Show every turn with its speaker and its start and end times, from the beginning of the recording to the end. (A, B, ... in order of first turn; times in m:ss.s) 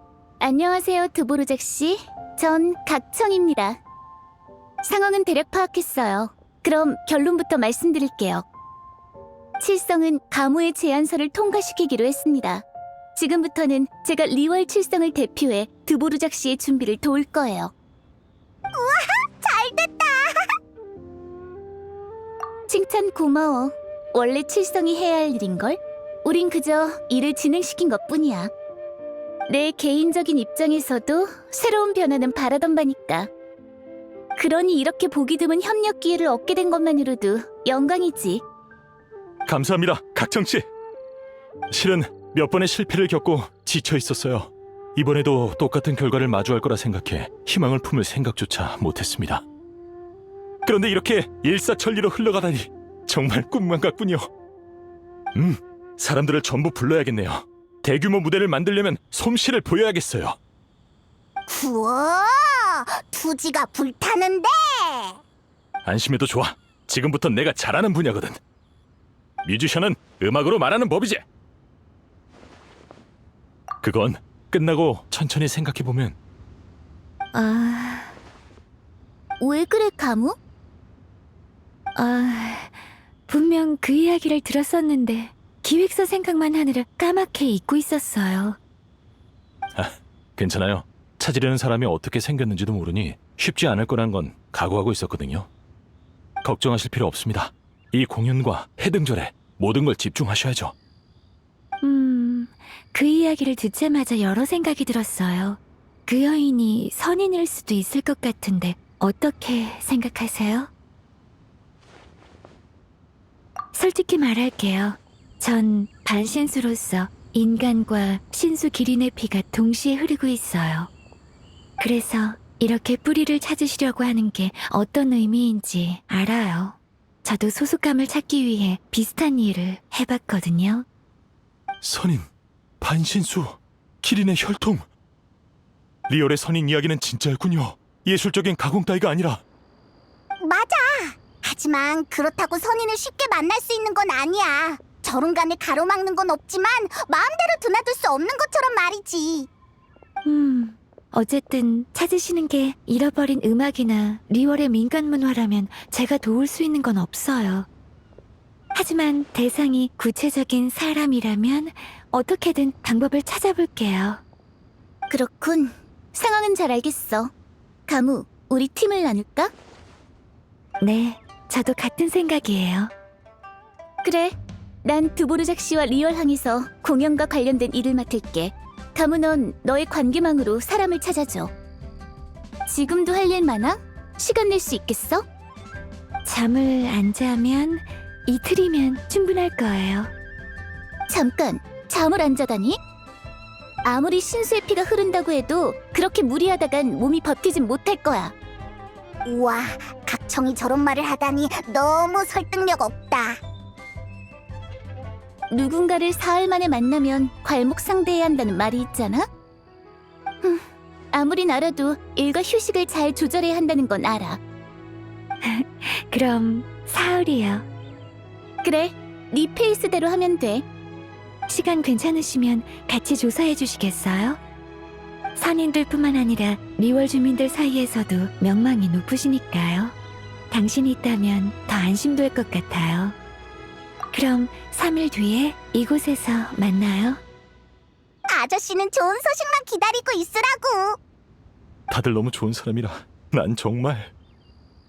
0:00.4-0:03.8 A
0:04.8-0:08.4 A
0:09.6-0:17.7 A
0:18.7-0:20.5 B
0:22.7-0:28.5 A
0:29.5-0:33.3 A
0:34.4-0:38.4 A
0:39.4-0:40.7 C
0:41.7-0:49.4 C
0:50.6-0:54.3 C
0:55.3-1:00.4 C
1:01.5-1:05.2 B
1:05.8-1:08.4 C
1:09.4-1:11.2 C
1:13.8-1:16.2 C
1:17.3-1:18.1 D
1:19.4-1:20.4 A
1:22.0-1:28.6 D
1:29.7-1:35.5 C
1:36.4-1:40.7 C
1:41.8-1:50.7 D
1:53.7-2:00.9 D
2:01.8-2:10.8 D
2:11.8-2:14.9 C
2:16.1-2:19.4 C
2:20.4-2:29.5 B
2:30.2-2:37.7 D
2:38.7-2:44.2 D
2:45.1-2:47.3 A
2:47.9-2:49.5 A
2:50.8-2:52.9 D
2:54.0-3:01.5 A
3:02.7-3:05.2 A
3:06.2-3:10.1 D
3:11.1-3:12.8 A
3:13.8-3:18.3 A
3:19.2-3:23.4 B
3:25.5-3:29.2 A
3:30.4-3:34.4 A
3:35.4-3:37.6 D
3:38.6-3:40.6 A
3:41.5-3:44.4 D
3:45.4-3:49.9 D
3:50.5-3:53.2 D
3:54.1-3:57.2 D
3:58.3-4:01.0 B
4:01.9-4:04.1 C